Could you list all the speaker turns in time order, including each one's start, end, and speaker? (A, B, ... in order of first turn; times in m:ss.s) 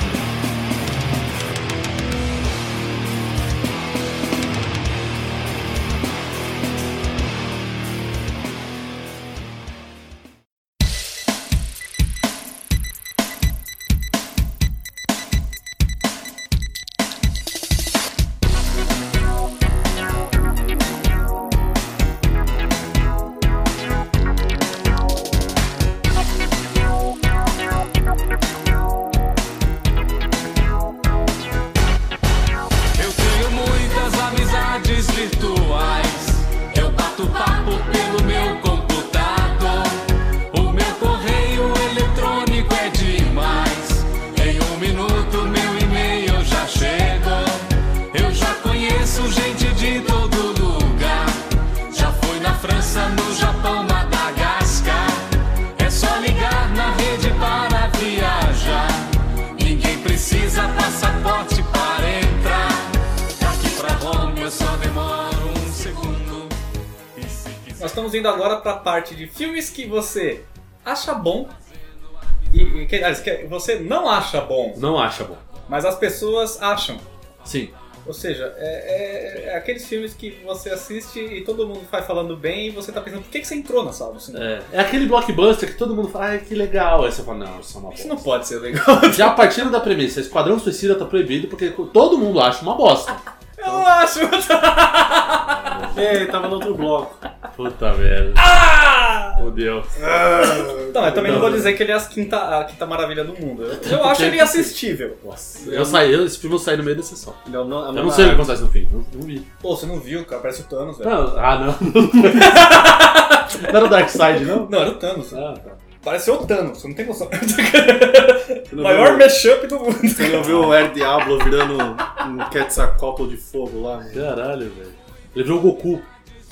0:33.0-1:06.6 A
1:07.2-1:07.7 A
1:07.8-1:11.5 B
1:12.5-1:14.8 B
1:14.7-1:15.4 C
1:15.7-1:17.0 B
1:17.4-1:17.8 C
1:18.0-1:24.5 B
1:24.3-1:28.2 C
1:28.0-1:29.5 B
1:29.0-1:33.9 C
1:33.6-1:35.9 B
1:35.3-1:36.2 C
1:35.9-1:37.2 D
1:37.5-1:38.5 C
1:38.4-1:39.4 B
1:39.4-1:39.9 C
1:40.0-1:41.7 D
1:40.4-1:45.2 B
1:41.2-1:41.7 C
1:43.7-1:49.5 C
1:45.6-1:46.0 D
1:47.4-1:48.5 D
1:49.6-1:51.2 B
1:51.0-1:53.0 C
1:52.4-1:53.6 B
1:53.5-1:55.8 C
1:54.6-1:55.4 B
1:56.0-2:00.7 B
1:58.7-1:59.4 D
2:00.2-2:04.3 D
2:00.4-2:00.7 C
2:04.1-2:06.1 C